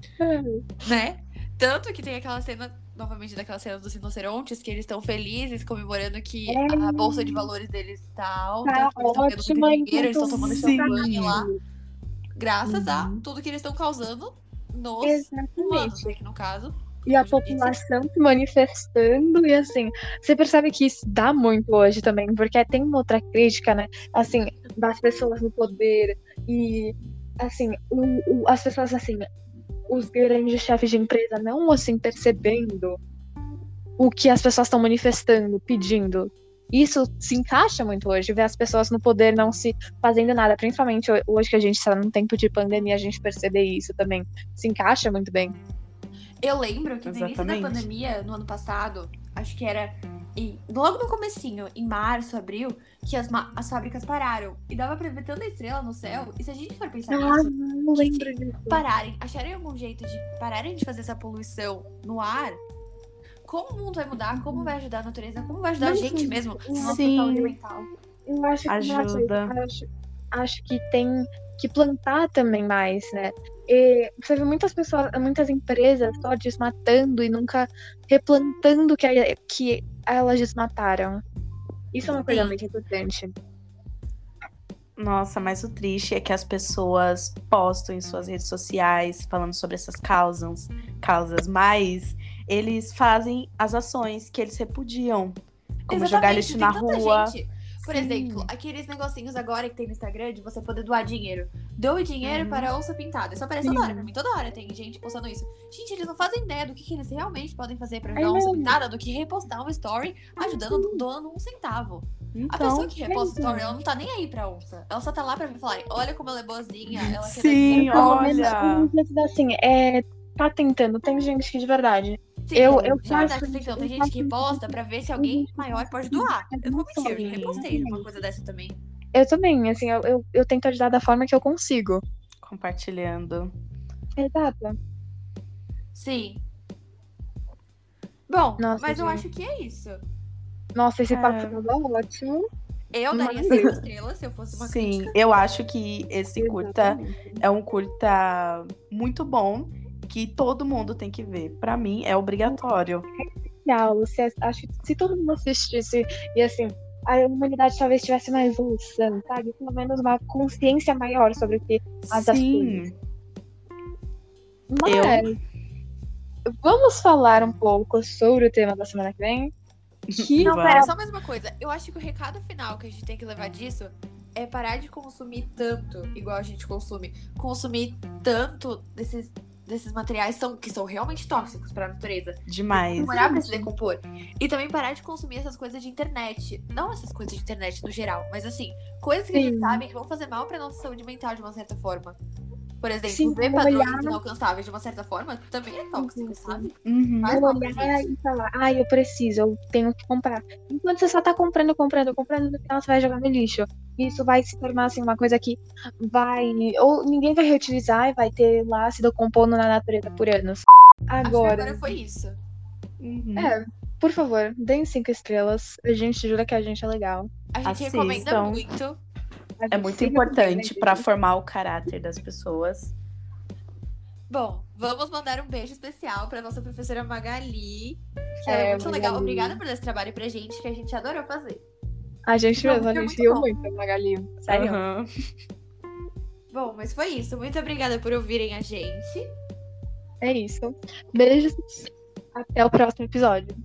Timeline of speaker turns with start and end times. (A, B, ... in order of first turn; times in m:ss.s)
0:00.2-0:00.8 A
0:00.8-0:11.5 B
0:06.5-0:07.5 A
0:08.6-0:11.6 A
0:10.3-0:11.4 C
0:12.4-0:17.8 B
0:12.6-0:13.2 C
0:15.0-0:16.1 A
0:17.0-0:29.3 A
0:29.9-0:33.0 A
0:34.0-0:45.6 A
0:46.4-1:02.6 B
0:47.1-0:47.9 C
0:57.1-0:58.8 A
1:03.4-1:07.9 B
1:04.4-1:04.7 A
1:05.8-1:07.5 A
1:06.8-1:07.5 C
1:08.3-1:21.2 A
1:08.7-1:09.5 C
1:21.9-1:23.3 A
1:22.1-1:22.6 B
1:25.0-1:38.5 C
1:35.9-1:58.6 B
1:42.2-1:42.7 C
1:43.6-1:44.1 A
1:48.2-1:48.8 A
1:50.4-1:51.1 A
1:52.3-1:52.9 C
1:53.0-1:53.8 A
1:56.9-1:58.9 C
1:57.7-2:08.2 A
2:02.5-2:08.8 B
2:07.1-2:08.0 C
2:09.1-2:12.0 A
2:12.4-2:13.5 C
2:14.2-2:14.8 A
2:15.9-2:16.4 B
2:18.3-2:20.0 B
2:18.6-2:19.3 A
2:20.8-2:22.5 A
2:21.1-2:21.7 C
2:22.9-2:25.2 B
2:23.1-2:23.8 A
2:23.5-2:23.8 C
2:24.5-2:33.1 C
2:26.4-2:27.4 A
2:33.2-2:42.9 A
2:42.0-2:43.0 C
2:44.7-2:45.4 A
2:44.8-2:45.3 C
2:46.5-2:49.5 A
2:50.1-2:50.9 C
2:50.2-2:51.0 A
2:50.5-3:12.2 B
3:02.5-3:03.1 C
3:02.9-3:03.7 A
3:09.3-3:09.8 A
3:12.8-3:18.1 B
3:13.1-3:14.2 A
3:16.0-3:16.7 A
3:16.9-3:17.4 C
3:17.3-3:32.0 A
3:31.2-3:32.4 B
3:33.0-3:33.6 C
3:33.4-3:37.3 A
3:37.5-3:39.0 B
3:37.6-3:38.6 C
3:39.6-3:41.1 A
3:39.7-3:43.0 C
3:44.3-3:51.6 B
3:48.4-3:49.6 A
3:52.3-3:54.8 A
3:52.6-3:53.5 B
3:54.5-3:55.1 C
3:56.5-3:59.3 B
4:00.2-4:03.6 A